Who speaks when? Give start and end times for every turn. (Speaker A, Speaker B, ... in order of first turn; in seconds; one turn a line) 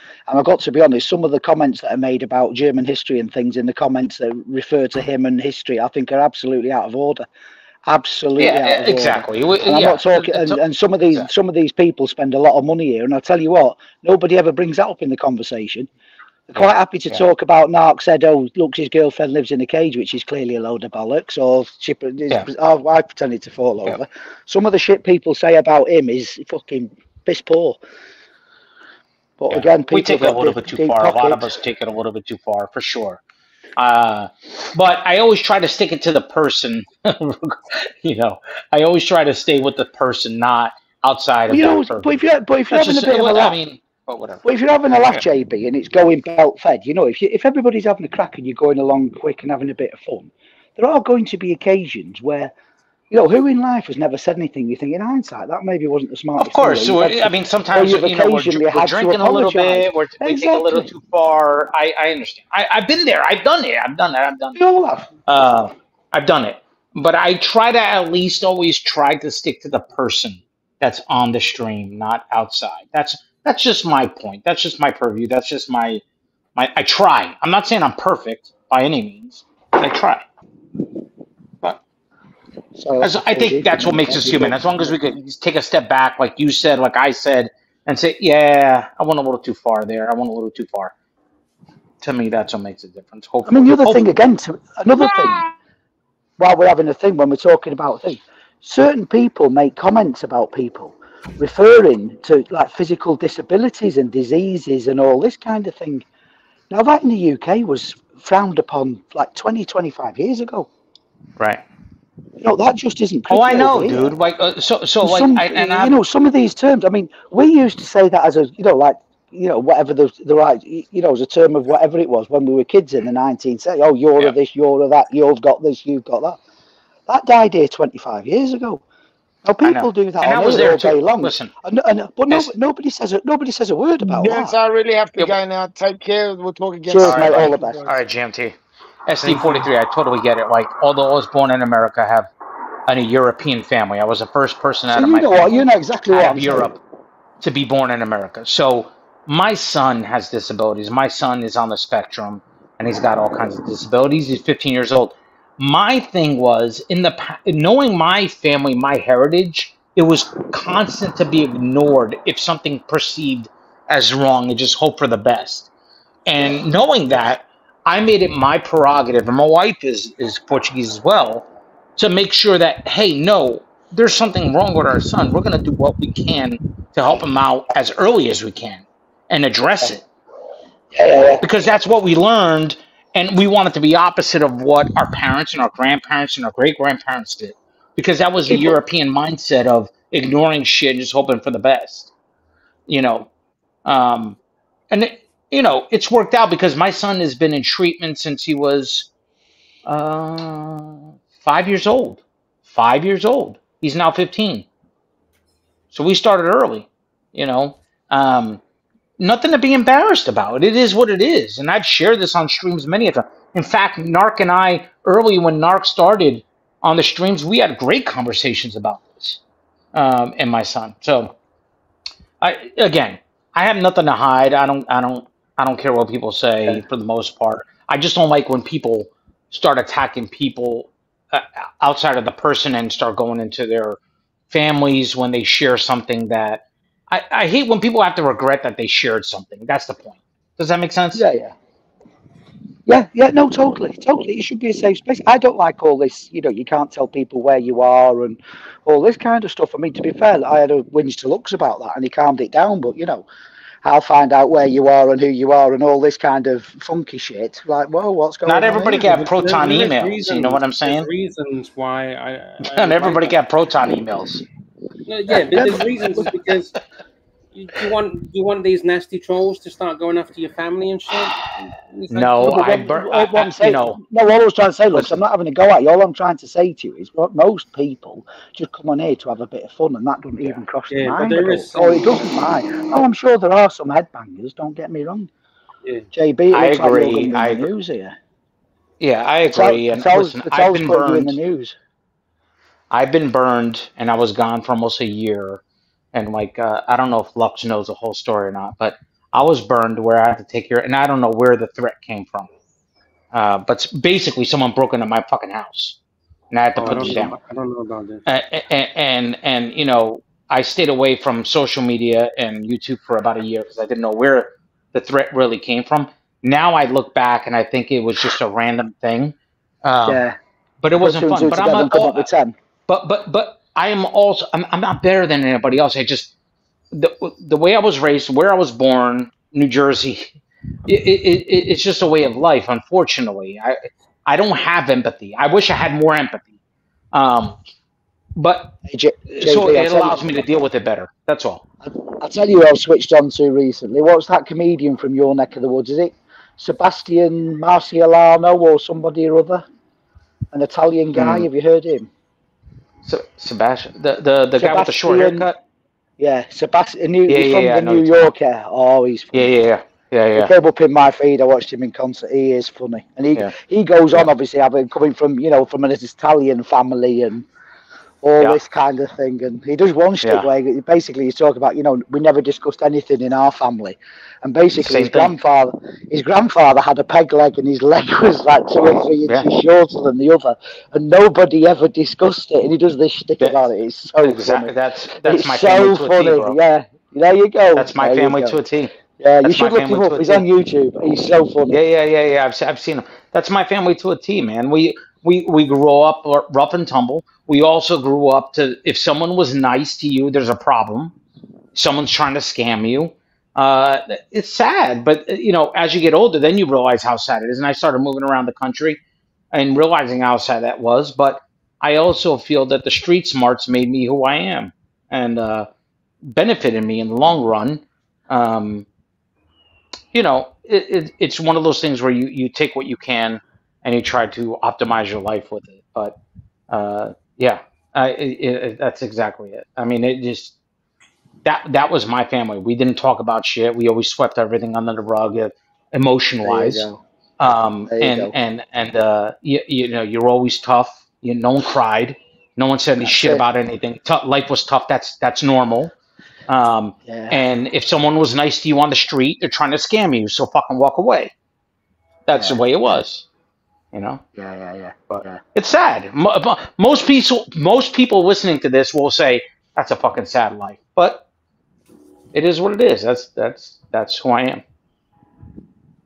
Speaker A: 0.3-7.2
Speaker A: 7.8-15.9
Speaker B: 8.4-11.3
Speaker A: 16.5-27.8
Speaker B: 16.5-17.2
Speaker A: 29.4-31.5
Speaker B: 29.5-33.2
Speaker B: 33.8-44.4
Speaker A: 41.5-43.6
Speaker A: 44.4-52.5
Speaker B: 44.9-45.3
Speaker A: 53.1-60.9
Speaker B: 56.4-64.6
Speaker A: 64.5-65.1
Speaker B: 65.3-76.0
Speaker B: 76.5-80.2
Speaker A: 82.8-85.2
Speaker B: 83.0-90.9
Speaker B: 92.0-94.1
Speaker A: 93.5-95.5
Speaker B: 94.9-95.5
Speaker A: 96.4-106.0
Speaker A: 106.7-110.7
Speaker A: 112.4-114.2
Speaker B: 113.3-115.9
Speaker A: 115.0-126.4
Speaker A: 127.1-128.8
Speaker A: 129.4-134.6
Speaker B: 129.6-131.5
Speaker B: 132.3-132.5
Speaker C: 134.0-137.9
Speaker A: 136.9-137.9
Speaker B: 137.0-138.6
Speaker B: 139.1-142.3
Speaker D: 139.2-139.7
Speaker B: 142.9-146.8
Speaker A: 144.9-146.8
Speaker B: 147.4-165.7
Speaker B: 166.2-180.0
Speaker A: 180.9-181.4
Speaker B: 181.4-192.1
Speaker A: 188.5-188.8
Speaker B: 192.9-193.3
Speaker B: 193.8-194.4
Speaker B: 194.9-199.1
Speaker B: 199.8-204.7
Speaker B: 205.9-208.6
Speaker B: 209.2-219.4
Speaker B: 219.9-221.3
Speaker B: 222.4-234.0
Speaker B: 234.5-241.2
Speaker A: 241.1-241.5
Speaker A: 242.9-253.3
Speaker A: 253.8-259.2
Speaker B: 258.4-261.1
Speaker D: 259.1-263.4
Speaker B: 262.7-264.4
Speaker D: 265.1-266.7
Speaker A: 265.5-266.2
Speaker D: 267.5-272.7
Speaker B: 271.3-274.0
Speaker A: 272.4-285.3
Speaker D: 280.9-282.4
Speaker A: 286.1-288.1
Speaker B: 286.5-287.7
Speaker B: 289.0-291.4
Speaker A: 289.5-291.7
Speaker B: 292.9-295.6
Speaker B: 296.1-302.5
Speaker B: 303.3-306.0
Speaker B: 306.5-307.4
Speaker D: 306.8-308.2
Speaker B: 308.2-320.2
Speaker A: 320.0-320.4
Speaker B: 320.8-322.3
Speaker A: 321.0-322.6
Speaker B: 322.9-326.3
Speaker B: 326.9-330.3
Speaker B: 330.9-336.5
Speaker B: 337.1-337.6
Speaker B: 338.4-338.8
Speaker A: 338.8-340.4
Speaker B: 339.3-341.6
Speaker A: 341.8-349.6
Speaker A: 350.5-352.1
Speaker B: 351.1-351.5
Speaker B: 353.0-355.6
Speaker A: 354.6-355.5
Speaker A: 356.2-359.6
Speaker B: 357.3-358.3
Speaker B: 359.3-360.5
Speaker A: 360.3-367.4
Speaker A: 368.2-388.6
Speaker B: 370.2-370.5
Speaker B: 374.7-375.4
Speaker B: 379.2-379.5
Speaker B: 384.2-386.6
Speaker B: 387.8-388.9
Speaker A: 389.2-391.8
Speaker B: 389.4-390.5
Speaker B: 391.7-401.1
Speaker B: 401.7-409.0
Speaker B: 409.5-415.7
Speaker B: 416.2-418.9
Speaker B: 420.1-426.1
Speaker B: 426.7-430.5
Speaker B: 431.4-436.9
Speaker A: 436.4-437.0
Speaker B: 437.4-445.9
Speaker A: 437.9-438.3
Speaker A: 443.0-443.4
Speaker B: 446.5-451.3
Speaker A: 447.0-447.4
Speaker B: 452.2-453.2
Speaker A: 452.3-452.6
Speaker B: 453.9-454.2
Speaker A: 454.4-455.4
Speaker B: 455.1-461.2
Speaker B: 462.3-464.6